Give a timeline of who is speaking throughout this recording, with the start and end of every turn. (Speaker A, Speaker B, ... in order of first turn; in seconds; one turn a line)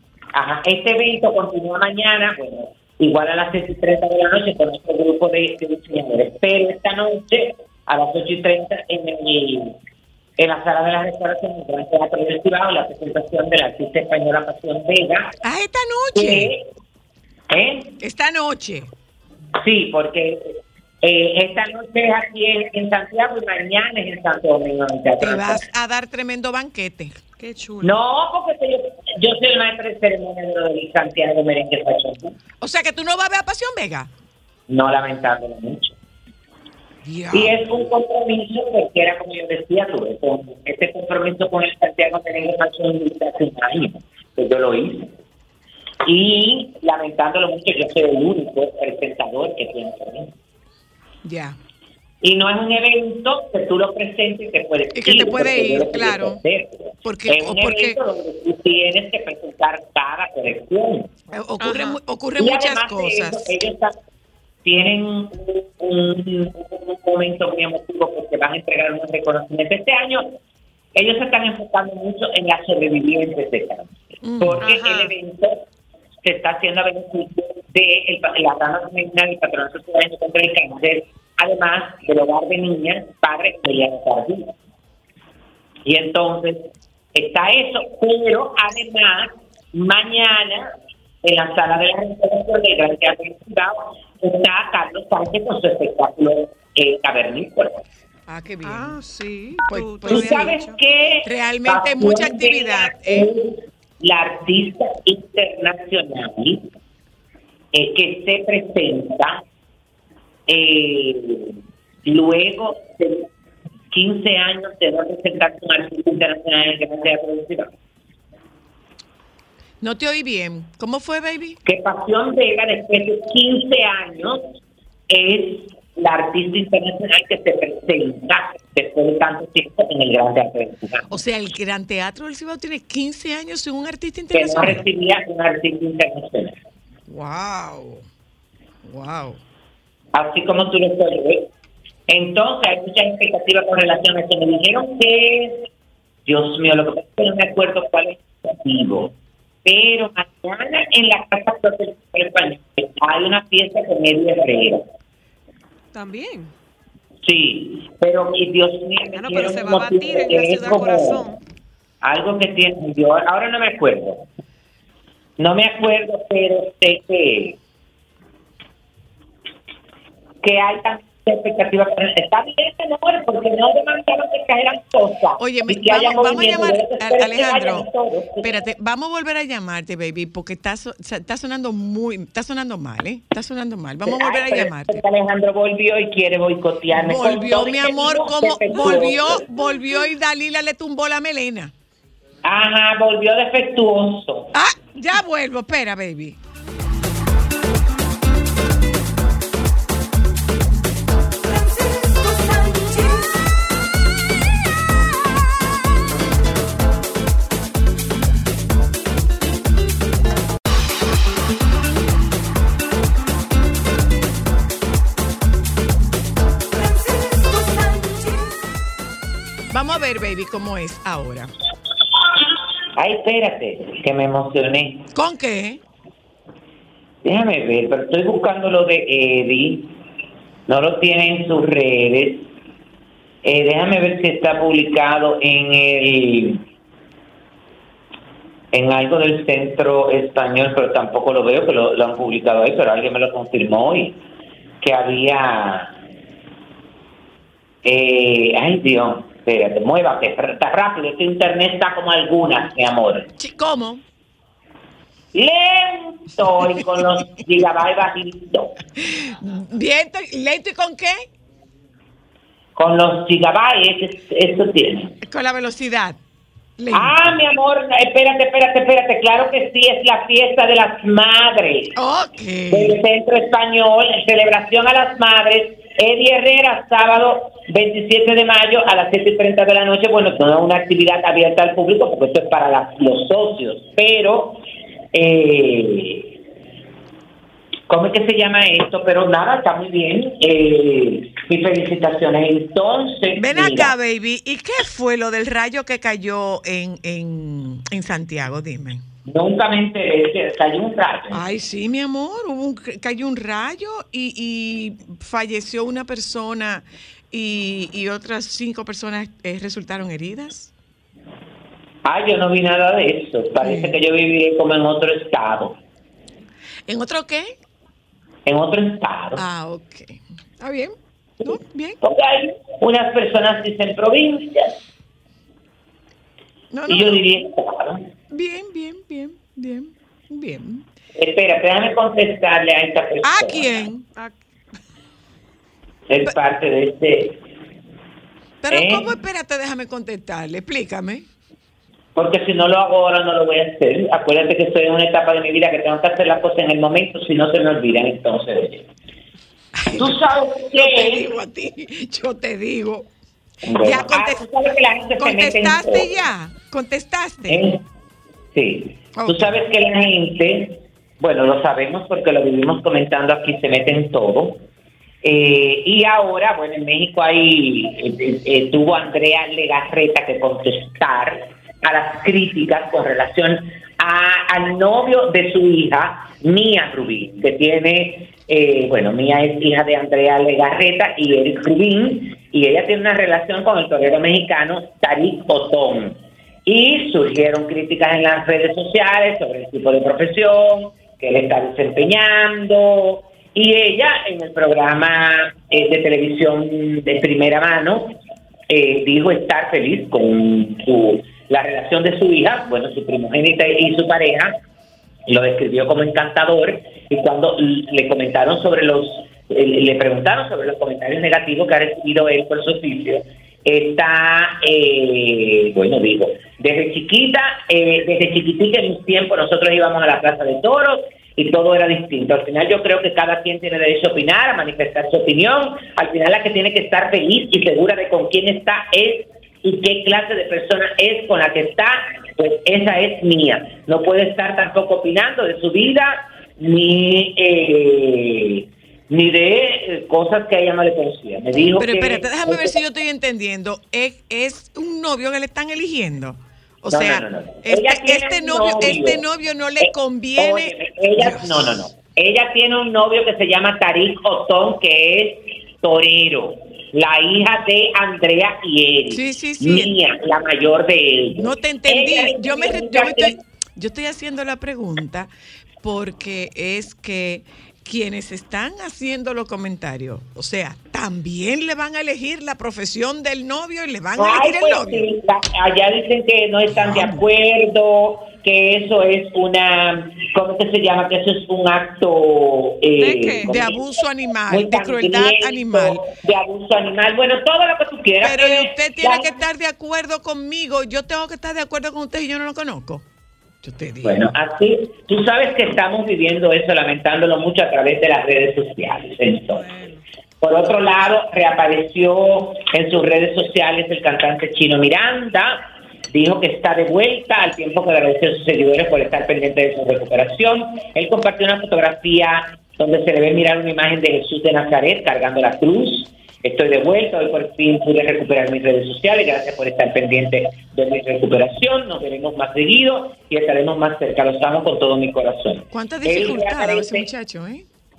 Speaker A: 0.3-9.7
Speaker A: 10.4-15.3
Speaker B: 15.4-16.5
Speaker A: 16.1-16.6
Speaker A: 17.5-17.9
Speaker B: 18.0-18.9
Speaker A: 19.6-25.6
Speaker B: 25.2-27.2
Speaker C: 27.4-28.0
Speaker A: 27.8-32.3
Speaker B: 32.6-34.1
Speaker A: 34.7-35.9
Speaker B: 37.0-37.6
Speaker A: 37.3-45.1
Speaker A: 46.0-50.3
Speaker B: 51.2-51.6
Speaker A: 52.2-61.1
Speaker B: 54.9-56.4
Speaker B: 57.0-58.0
Speaker B: 61.3-63.5
Speaker C: 61.6-62.0
Speaker A: 62.4-63.9
Speaker A: 64.6-70.3
Speaker A: 70.9-75.6
Speaker B: 74.2-74.6
Speaker C: 74.6-75.1
Speaker A: 76.2-84.5
Speaker A: 85.8-90.7
Speaker A: 91.2-97.8
Speaker B: 98.3-99.0
Speaker C: 98.6-100.8
Speaker B: 99.6-100.6
Speaker A: 100.1-106.6
Speaker B: 101.2-103.3
Speaker A: 107.7-109.4
Speaker A: 110.5-113.3
Speaker A: 113.9-117.7
Speaker B: 119.8-121.6
Speaker A: 121.7-124.4
Speaker A: 125.1-131.2
Speaker B: 131.1-134.8
Speaker A: 134.3-136.6
Speaker B: 137.1-138.0
Speaker B: 138.8-139.4
Speaker A: 140.1-141.5
Speaker A: 142.1-145.7
Speaker A: 146.2-149.1
Speaker A: 149.6-154.8
Speaker C: 155.9-156.5
Speaker A: 157.2-161.2
Speaker C: 159.1-161.4
Speaker A: 162.0-164.2
Speaker A: 165.4-167.6
Speaker A: 170.4-178.5
Speaker B: 175.4-177.9
Speaker B: 178.4-185.0
Speaker A: 184.1-189.4
Speaker B: 186.9-191.7
Speaker C: 188.8-189.1
Speaker A: 192.4-194.5
Speaker B: 194.5-196.4
Speaker B: 219.7-221.5
Speaker A: 223.0-225.1
Speaker B: 225.1-225.8
Speaker A: 227.2-229.9
Speaker A: 230.7-232.4
Speaker A: 233.4-236.6
Speaker A: 238.7-244.2
Speaker A: 244.8-245.9
Speaker A: 247.8-253.3
Speaker B: 253.4-254.0
Speaker A: 255.3-258.7
Speaker B: 259.0-261.2
Speaker A: 262.8-265.1
Speaker B: 265.2-266.2
Speaker B: 266.8-267.2
Speaker A: 266.9-271.9
Speaker B: 271.9-272.9
Speaker A: 272.7-284.6
Speaker A: 285.1-286.3
Speaker A: 287.9-293.9
Speaker B: 293.4-299.0
Speaker A: 299.2-301.4
Speaker B: 301.3-310.7
Speaker A: 312.0-315.8
Speaker B: 313.6-313.9
Speaker B: 316.9-317.5
Speaker A: 318.4-319.4
Speaker B: 319.3-322.0
Speaker A: 321.4-324.7
Speaker B: 326.7-327.2
Speaker A: 326.9-328.0
Speaker B: 328.3-330.9
Speaker A: 331.1-333.9
Speaker B: 333.2-334.1
Speaker A: 336.1-337.4
Speaker B: 338.6-341.2
Speaker A: 338.7-339.1
Speaker A: 342.1-348.8
Speaker B: 349.8-350.2
Speaker A: 350.0-351.3
Speaker B: 350.7-353.1
Speaker A: 353.6-356.1
Speaker B: 353.8-354.4
Speaker B: 355.2-357.7
Speaker A: 357.5-357.8
Speaker A: 358.5-364.6
Speaker B: 359.1-359.5
Speaker A: 365.2-398.2
Speaker A: 398.7-404.5
Speaker A: 405.3-442.8
Speaker B: 441.8-451.7
Speaker A: 446.9-449.2
Speaker A: 449.8-463.4
Speaker B: 459.1-459.9
Speaker B: 461.3-475.1
Speaker A: 474.2-483.8
Speaker B: 476.7-477.2
Speaker C: 483.0-483.5
Speaker B: 483.4-486.0
Speaker A: 484.5-489.3
Speaker B: 488.2-493.0
Speaker B: 493.6-494.3
Speaker A: 494.0-499.6
Speaker C: 499.5-500.0
Speaker A: 500.4-527.1
Speaker B: 525.7-527.6